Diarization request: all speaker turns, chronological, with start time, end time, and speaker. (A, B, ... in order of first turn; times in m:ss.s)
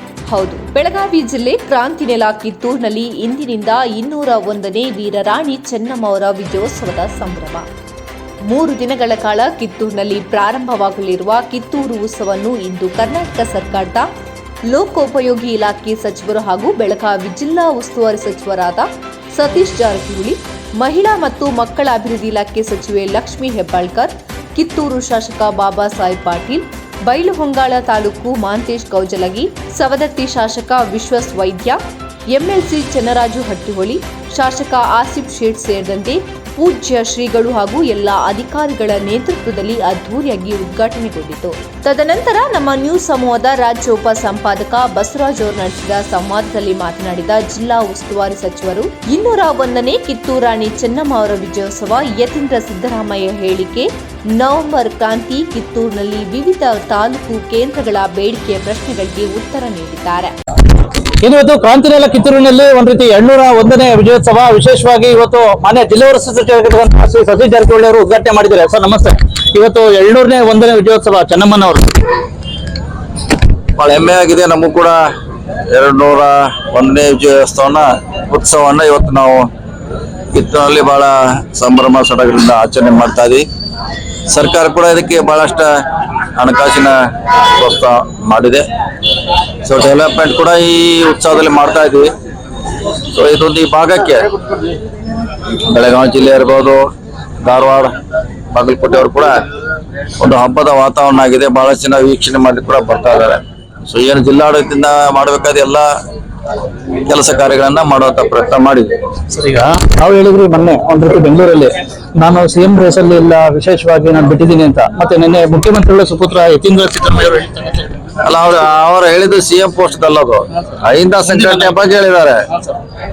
0:00.3-0:07.7 A
0:08.5-0:14.1 A
0:14.6-1:00.4 A
1:01.2-1:12.0 B
1:13.8-1:15.0 C
1:15.7-1:19.5 C
1:20.3-1:23.5 C
1:24.3-1:25.8 C
1:26.4-1:28.6 C
1:29.6-1:32.1 C
1:33.1-1:34.3 C
1:35.7-1:36.9 C
1:37.4-1:37.9 C
1:38.5-1:39.4 C
1:40.2-1:45.9 C
1:47.1-1:48.9 C
1:49.3-1:57.9 B
1:58.2-2:02.5 C
2:01.2-2:01.8 B